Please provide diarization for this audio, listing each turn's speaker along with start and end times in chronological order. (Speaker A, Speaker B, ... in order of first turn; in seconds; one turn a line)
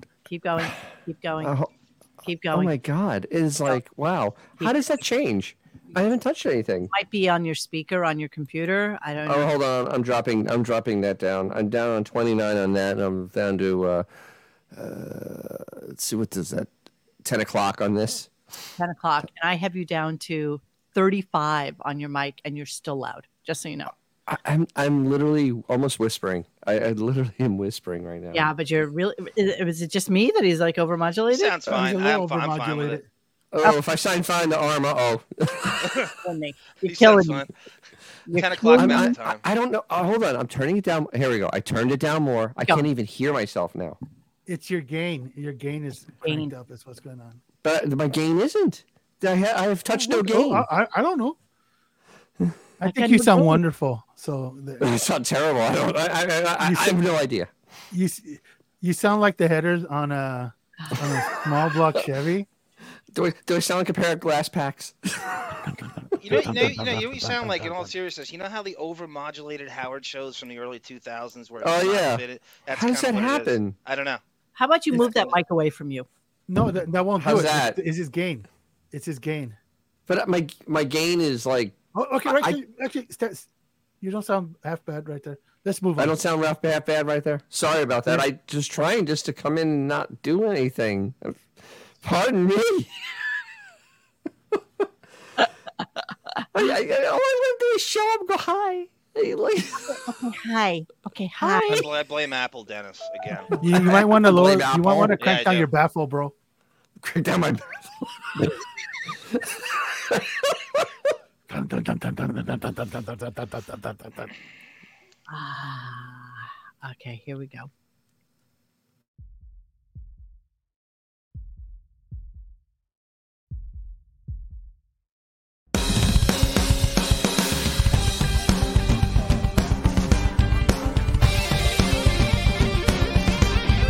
Speaker A: 0.2-1.5
Speaker B: 1.4-1.7
Speaker A: 2.2-2.7
Speaker B: 2.5-6.9
Speaker A: 6.9-9.5
Speaker B: 9.2-14.1
Speaker B: 14.7-16.7
Speaker B: 17.2-18.3
Speaker A: 18.8-23.9
Speaker B: 24.3-28.5
Speaker A: 28.3-31.6
Speaker C: 31.3-33.0
Speaker D: 31.6-33.1
Speaker B: 33.5-35.7
Speaker A: 36.2-37.4
Speaker C: 36.9-37.5
Speaker A: 38.3-39.1
Speaker C: 38.3-39.4
Speaker B: 38.8-44.0
Speaker D: 44.5-47.4
Speaker A: 46.2-46.5
Speaker B: 47.6-50.7
Speaker D: 49.9-51.4
Speaker D: 52.8-54.8
Speaker A: 52.8-53.6
Speaker B: 54.8-57.5
Speaker D: 56.6-57.0
Speaker D: 57.9-62.5
Speaker B: 63.1-64.9
Speaker D: 65.7-67.9
Speaker C: 66.2-74.2
Speaker B: 71.6-73.7
Speaker A: 74.5-76.1
Speaker D: 76.5-79.6
Speaker B: 77.2-77.8
Speaker B: 80.1-81.7
Speaker D: 81.9-83.5
Speaker B: 82.2-82.6
Speaker D: 84.0-86.2
Speaker B: 86.0-91.4
Speaker B: 92.0-92.9
Speaker B: 96.5-99.9
Speaker A: 100.0-101.8
Speaker C: 101.7-103.5
Speaker D: 103.5-106.3
Speaker B: 104.1-105.1
Speaker C: 105.2-105.7
Speaker B: 107.0-107.7
Speaker D: 111.5-114.3
Speaker A: 115.3-117.7